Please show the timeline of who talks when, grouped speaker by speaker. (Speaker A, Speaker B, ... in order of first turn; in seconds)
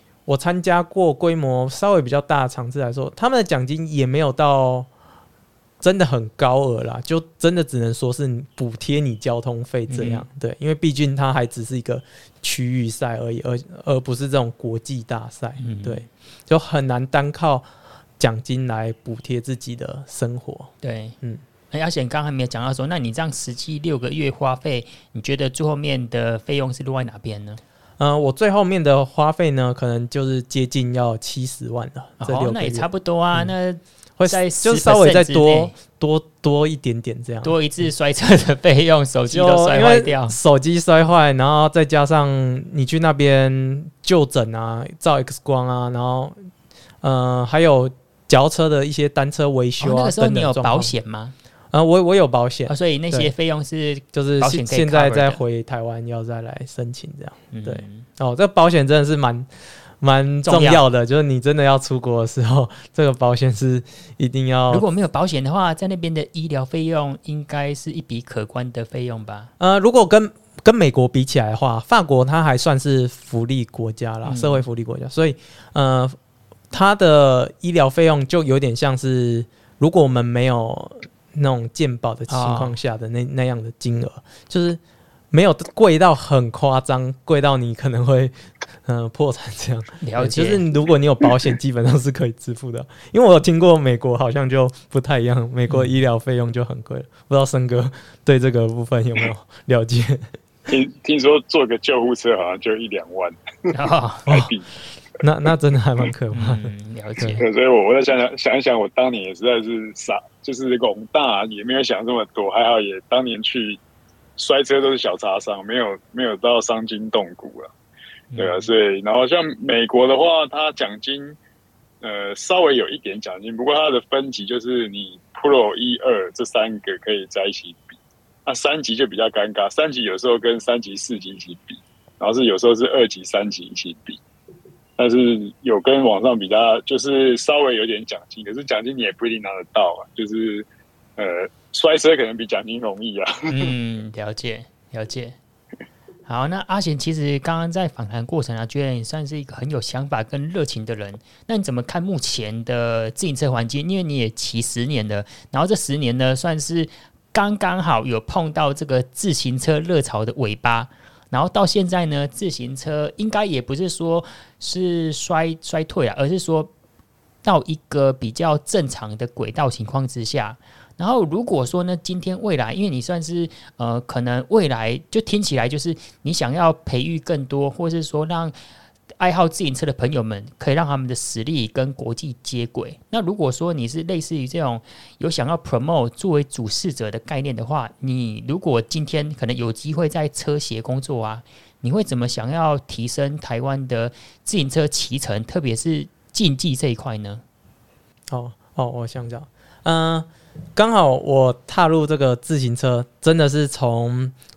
Speaker A: 0.3-4.9, 5.8-17.7, 18.2-20.7, 28.0-33.5, 34.2-37.9, 39.3-46.4, 47.0-50.9, 51.7-53.3, 54.1-59.5, 60.0-64.8, 69.6-76.2, 76.7-84.8, 85.3-88.3, 88.9-100.3, 104.3-104.5, 105.2-107.4, 198.3-204.3
Speaker B: 9.9-10.2, 15.6-16.1, 20.8-21.2, 21.7-27.6, 32.2-35.8, 37.4-40.4, 49.8-51.3, 52.7-55.4, 57.5-58.1, 60.5-60.8, 64.7-69.5, 74.2-74.6, 82.3-82.8, 90.0-90.7, 95.7-96.0, 103.7-104.3, 106.3-107.4, 118.3-118.7, 143.5-145.4, 146.3-166.7, 167.4-178.6, 179.2-197.4
Speaker C: 100.7-103.7, 104.3-104.7, 107.4-113.8, 114.4-117.7, 118.4-121.4, 122.0-134.2, 135.0-143.7